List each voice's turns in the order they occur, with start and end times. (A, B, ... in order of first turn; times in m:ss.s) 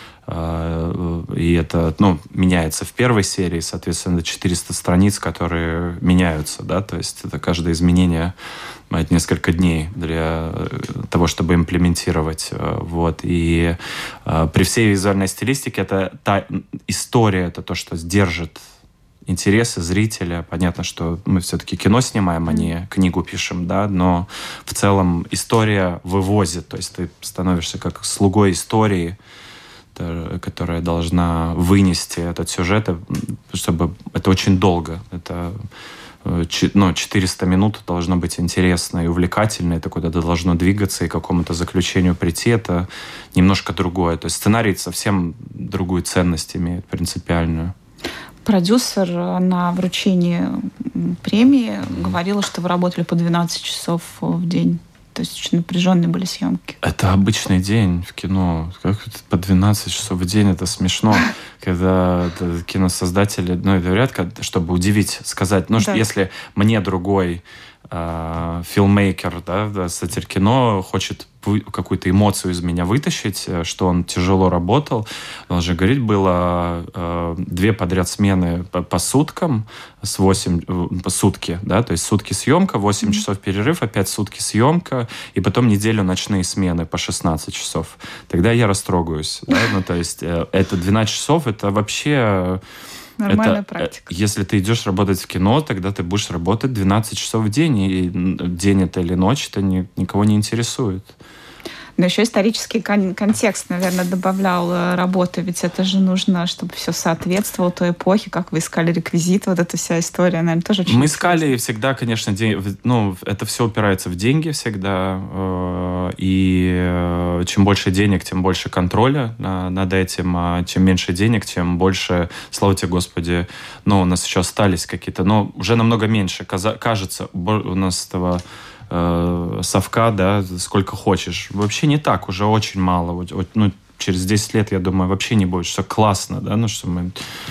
0:00.2-0:08.3 A
0:08.9-0:18.6 A
0:19.2-0:29.2 A
0:29.9-0:35.6 A
0:36.2-0:47.7 A
0:48.4-0:56.8 B
0:56.8-1:32.6 A
1:05.8-1:06.0 B
1:33.2-1:34.0 B
1:33.3-1:41.2 A
1:42.0-1:51.5 B
1:50.9-2:17.2 A